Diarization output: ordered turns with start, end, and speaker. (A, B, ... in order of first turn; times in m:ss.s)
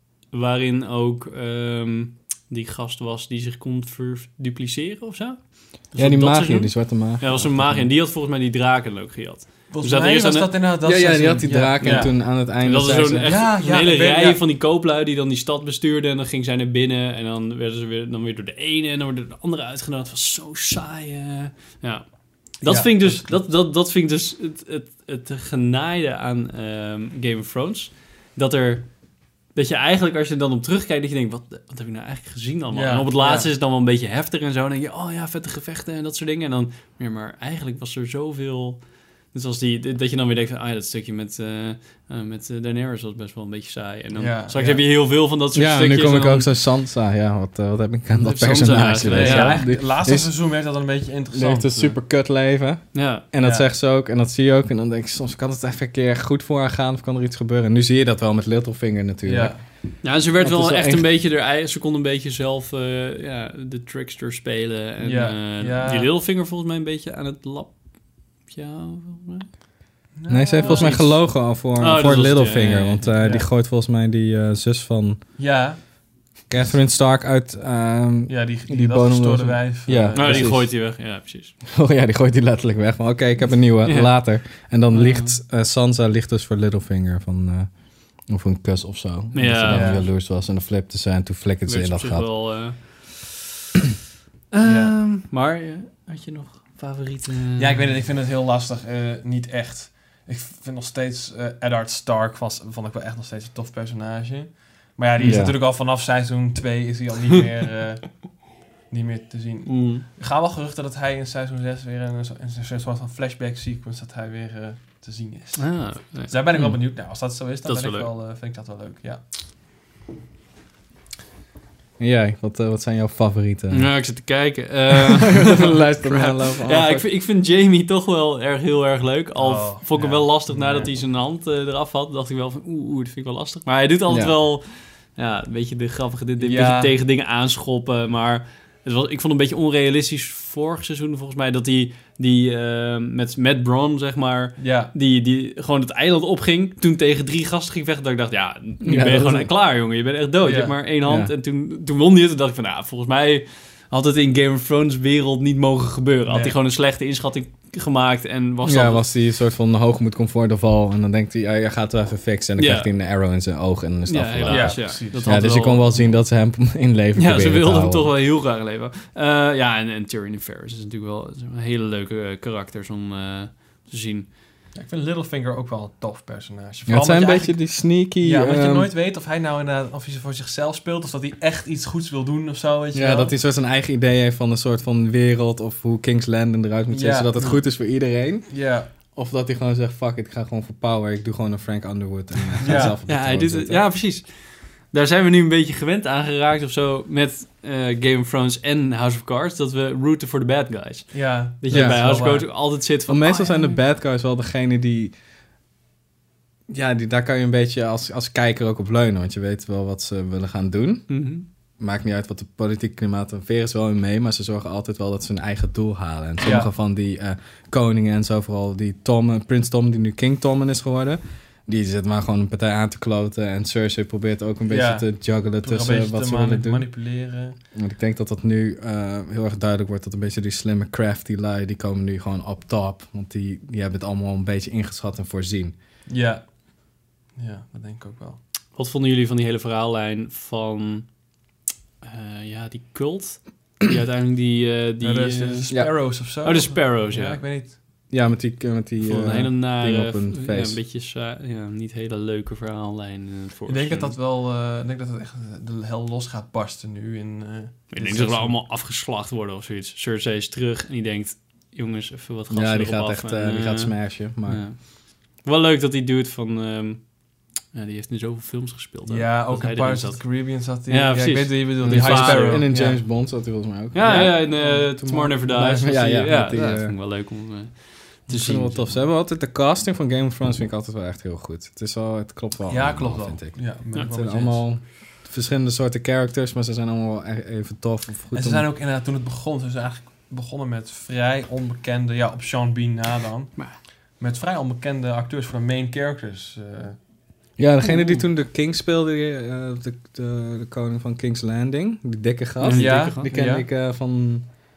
0:00.3-0:10.5 A
0:05.9-0:07.9 B
0:09.7-0:12.2 C
0:10.8-0:13.3 B
0:11.6-0:28.9 A
0:13.2-0:14.4 C
0:22.6-0:23.4 C
0:29.5-0:46.5 A
0:32.7-0:33.5 C
0:44.1-0:44.8 C
0:45.5-0:50.3 B
0:48.2-0:49.6 A
0:49.0-0:52.0 C
0:51.3-1:01.1 B
0:52.9-0:53.2 A
0:53.4-0:53.7 C
0:59.2-0:59.6 C
1:00.0-1:07.8 A
1:05.0-1:06.1 C
1:08.4-1:09.5 A
1:10.2-1:11.1 C
1:10.3-1:15.2 B
1:10.6-1:13.1 A
1:13.2-1:13.4 C
1:15.4-1:15.8 C
1:16.5-1:20.7 B
1:18.3-1:20.6 C
1:20.1-1:21.5 A
1:21.6-1:32.8 B
1:23.8-1:24.2 A
1:24.9-1:25.3 A
1:29.3-1:30.1 A
1:29.7-1:30.1 C
1:31.6-1:33.4 A
1:34.5-1:37.8 A
1:34.6-1:34.9 C
1:37.6-1:59.2 C
1:45.2-1:45.6 B
1:49.6-1:50.0 A
1:55.6-1:56.6 A
1:57.6-1:58.1 A
2:02.0-2:04.0 B
2:03.7-2:39.0 A
2:04.9-2:07.1 B
2:09.4-2:10.9 C
2:14.1-2:14.3 B
2:16.4-2:16.9 C
2:24.6-2:24.9 C
2:28.8-2:29.5 B
2:30.4-2:30.8 C
2:31.0-2:31.3 B
2:36.3-2:36.6 C
2:38.6-2:48.1 B
2:42.6-2:42.9 A
2:44.0-2:46.1 A
2:44.4-2:45.5 C
2:47.1-2:54.3 A
2:54.7-3:03.3 C
2:56.9-2:58.9 B
3:02.9-3:08.5 B
3:06.9-3:07.4 C
3:08.5-3:08.9 C
3:09.1-3:13.8 B
3:12.6-3:12.9 C
3:12.8-3:14.3 A
3:14.9-3:23.8 A
3:21.1-3:22.5 C
3:21.7-3:22.0 B
3:23.1-3:25.1 B
3:26.7-3:31.2 B
3:31.1-3:31.4 A
3:31.8-3:46.9 B
3:36.4-3:36.7 C
3:44.7-3:47.6 C
3:47.7-3:55.8 B
3:56.0-3:56.4 C
3:57.4-3:58.4 C
3:58.7-4:01.1 A
4:02.0-4:05.8 A
4:05.0-4:07.8 C
4:06.4-4:07.4 A
4:08.1-4:10.8 B
4:09.0-4:14.2 A
4:13.7-4:18.6 C
4:17.9-4:27.1 A
4:22.5-4:24.6 B
4:27.7-4:32.7 A
4:29.1-4:33.0 C
4:31.8-4:36.9 B
4:33.9-4:39.0 A
4:34.0-4:34.9 C
4:38.3-4:48.7 B
4:42.7-4:44.6 C
4:48.3-4:57.0 C
4:57.6-5:04.5 B
4:57.8-4:58.2 A
5:02.6-5:03.3 A
5:02.7-5:03.6 C